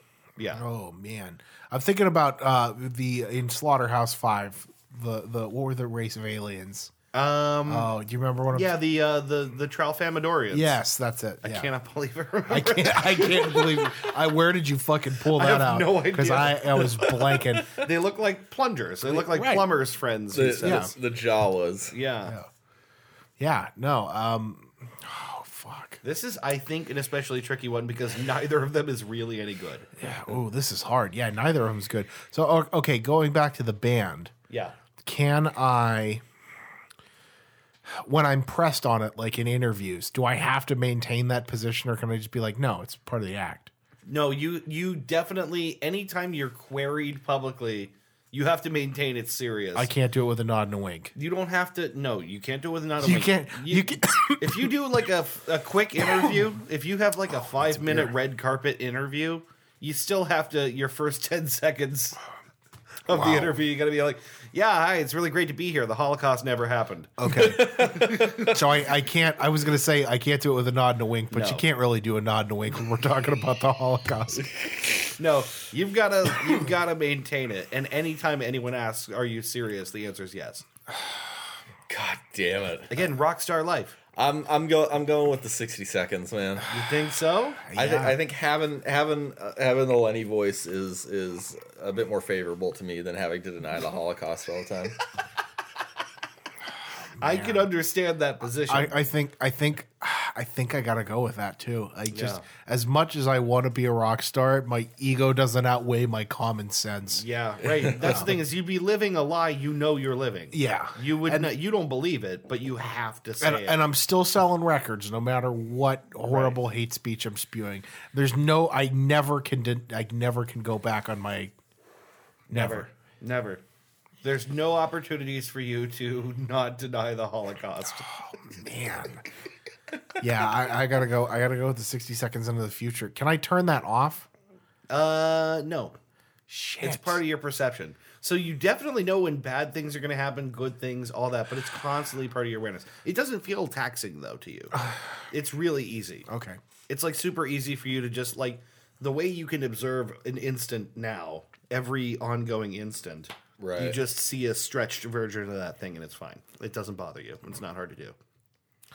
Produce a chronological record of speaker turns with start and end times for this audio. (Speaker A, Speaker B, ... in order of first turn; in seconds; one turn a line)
Speaker A: 0.4-0.6
Speaker B: 0.5-6.9
Speaker A: 7.1-7.9
Speaker B: 7.7-8.8
Speaker A: 8.5-10.8
Speaker B: 10.5-11.7
Speaker A: 11.4-14.1
Speaker B: 12.5-17.8
Speaker A: 15.3-20.9
Speaker B: 19.0-19.7
Speaker C: 20.3-21.9
Speaker B: 20.6-20.9
Speaker A: 21.9-22.3
Speaker B: 23.4-26.0
Speaker A: 26.0-29.9
Speaker B: 30.0-34.3
Speaker A: 34.5-34.8
Speaker B: 35.0-36.2
Speaker B: 37.9-43.7
Speaker A: 44.0-49.9
Speaker B: 49.7-51.1
Speaker A: 51.1-62.2
Speaker B: 53.0-54.7
Speaker B: 57.7-58.1
Speaker A: 63.1-68.5
Speaker B: 63.1-63.5
Speaker B: 67.2-74.5
Speaker C: 67.3-68.6
Speaker A: 71.3-71.6
Speaker C: 74.4-75.1
Speaker A: 75.2-80.6
Speaker C: 81.9-83.0
Speaker A: 82.9-84.0
Speaker C: 84.1-86.7
Speaker A: 86.7-87.7
Speaker B: 87.6-88.2
Speaker C: 87.7-95.0
Speaker B: 97.2-97.7
Speaker A: 97.2-99.0
Speaker B: 98.7-107.2
Speaker A: 102.1-102.4
Speaker A: 107.2-113.8
Speaker B: 108.0-108.3
Speaker B: 110.5-111.5
Speaker B: 113.4-121.5
Speaker A: 116.2-116.6
Speaker B: 122.5-122.9
Speaker A: 122.5-123.6
Speaker A: 124.2-128.1
Speaker B: 128.1-129.2
Speaker B: 130.2-134.3
Speaker A: 134.9-135.9
Speaker B: 136.5-137.2
Speaker A: 136.8-144.8
Speaker A: 145.3-146.3
Speaker B: 146.3-146.6
Speaker A: 146.9-158.2
Speaker C: 153.6-154.0